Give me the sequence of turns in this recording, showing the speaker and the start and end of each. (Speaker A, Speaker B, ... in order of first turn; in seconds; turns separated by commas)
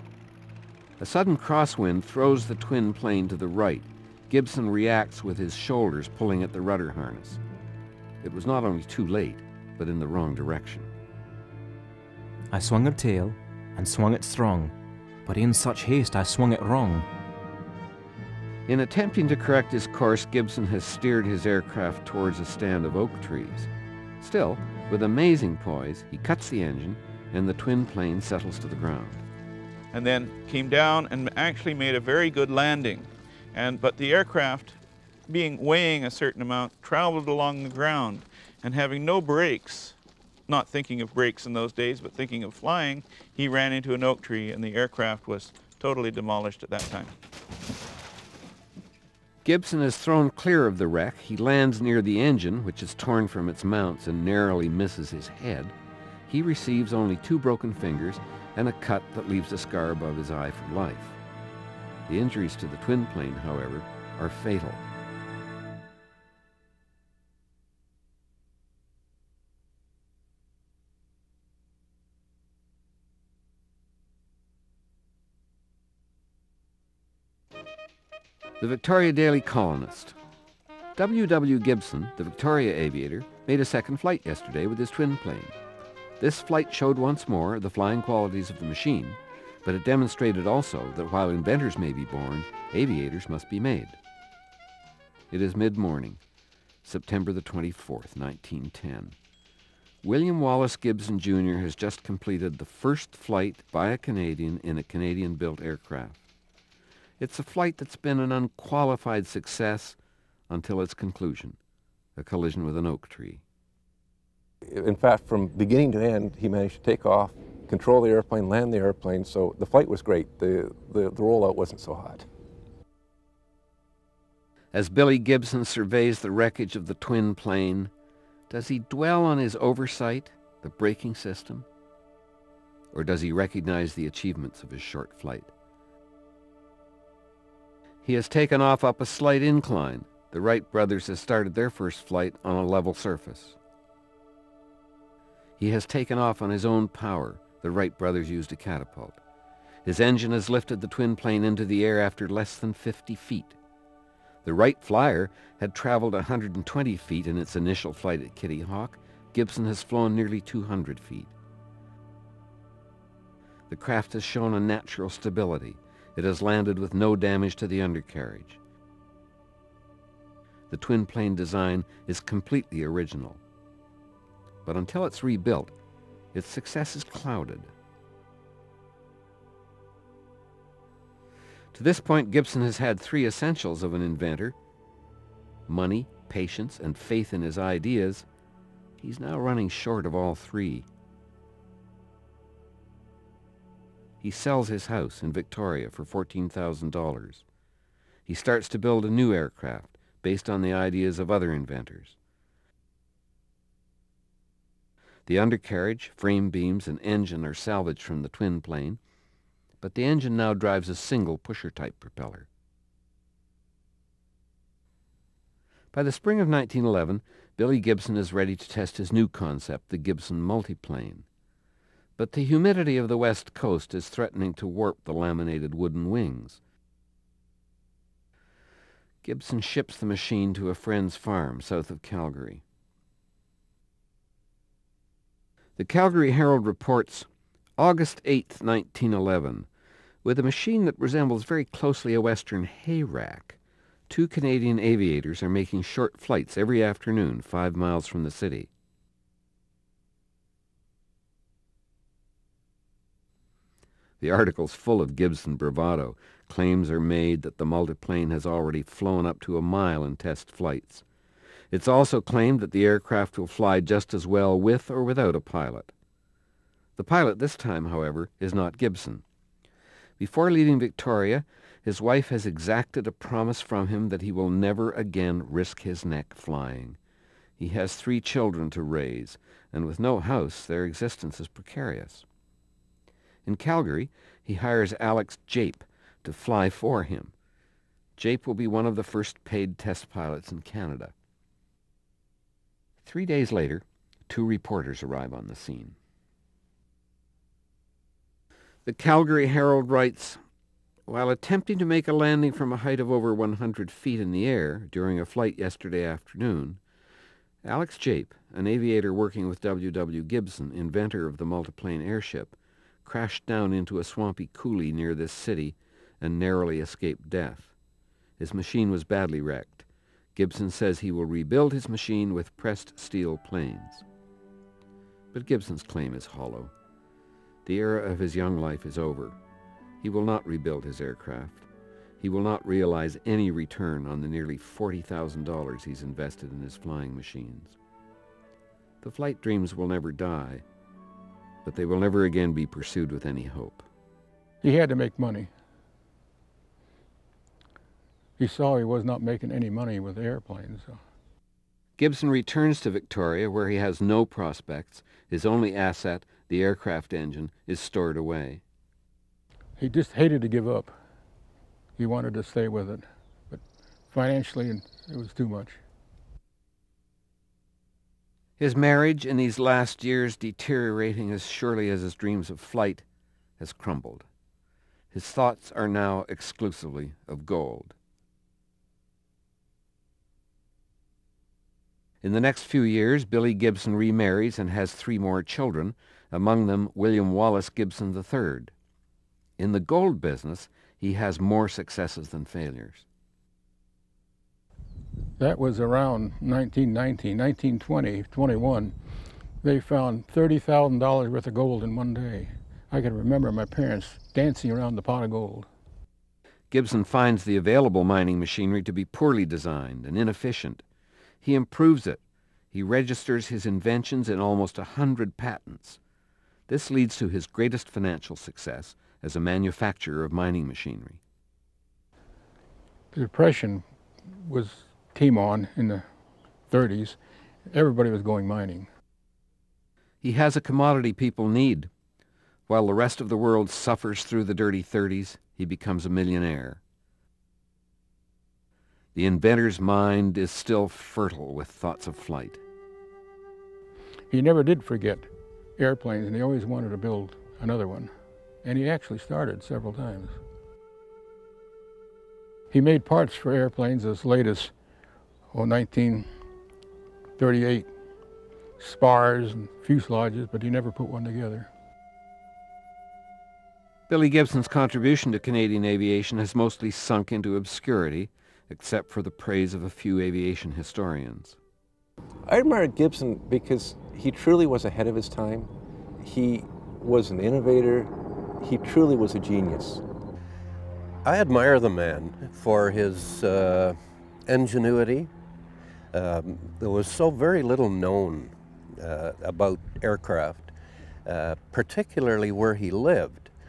Speaker A: 1.0-7.4, Speaker A: 8.2-10.9, Speaker B: 12.5-17.1, Speaker A: 18.7-23.7, Speaker A: 24.2-29.2, Speaker C: 29.9-40.0, Speaker C: 40.5-47.1, Speaker A: 49.4-55.8, Speaker A: 56.3-61.2, Speaker A: 62.1-64.8, Speaker A: 78.6-80.2, Speaker A: 81.0-85.6, Speaker A: 86.2-94.0, Speaker A: 95.3-96.2, Speaker A: 96.8-99.2, Speaker A: 100.0-106.2, Speaker A: 107.2-110.0, Speaker A: 110.5-111.6, Speaker A: 112.2-113.4, Speaker D: 114.6-122.3, Speaker A: 124.7-127.9, Speaker A: 128.5-131.7, Speaker A: 132.9-135.5, Speaker A: 138.0-143.6, Speaker A: 145.6-149.2, Speaker A: 149.8-153.6, Speaker A: 154.4-161.3, Speaker A: 163.7-168.6, Speaker A: 170.7-173.4, Speaker A: 174.7-175.7, Speaker A: 176.3-177.7, Speaker A: 181.7-184.6, Speaker A: 185.7-188.3, Speaker A: 189.0-190.9, Speaker A: 194.2-197.4, Speaker A: 198.3-202.2, Speaker A: 205.3-209.0, Speaker A: 209.8-212.5, Speaker A: 215.9-221.2, Speaker A: 222.2-226.6, Speaker A: 229.2-232.6, Speaker A: 235.8-239.7, Speaker A: 240.2-243.6, Speaker A: 244.1-248.7, Speaker A: 254.2-261.0, Speaker A: 261.7-265.9, Speaker A: 267.0-269.2, Speaker A: 270.2-277.0, Speaker A: 277.6-282.2, Speaker A: 283.4-287.3, Speaker A: 288.2-291.1, Speaker A: 293.0-296.0, Speaker A: 298.9-300.4, Speaker A: 301.1-306.8, Speaker A: 307.6-317.7, Speaker A: 318.4-324.0, Speaker A: 325.3-326.7, Speaker A: 327.7-329.4, Speaker A: 330.0-331.7, Speaker A: 332.2-337.8, Speaker A: 339.0-340.6, Speaker A: 341.6-343.9, Speaker E: 344.6-345.5, Speaker E: 348.4-351.0, Speaker A: 352.0-358.6, Speaker E: 359.8-360.9, Speaker E: 362.0-365.8, Speaker A: 368.6-373.1, Speaker A: 373.6-374.3, Speaker A: 375.1-377.9, Speaker A: 382.2-388.7, Speaker A: 389.6-393.1, Speaker E: 395.4-398.9, Speaker E: 399.6-405.7, Speaker A: 406.7-410.9, Speaker A: 411.4-412.2, Speaker A: 412.7-416.0, Speaker A: 416.7-421.2, Speaker E: 423.1-426.1, Speaker E: 426.7-427.2, Speaker E: 427.7-428.9, Speaker A: 430.2-431.9, Speaker A: 432.7-436.8, Speaker A: 439.1-442.6, Speaker E: 444.3-448.1, Speaker E: 448.6-450.4, Speaker E: 452.7-454.7, Speaker E: 455.5-456.3, Speaker E: 457.4-457.9, Speaker E: 458.8-461.7, Speaker A: 464.1-471.6, Speaker D: 472.5-480.0, Speaker F: 481.2-485.3, Speaker F: 486.1-490.7, Speaker F: 491.3-493.5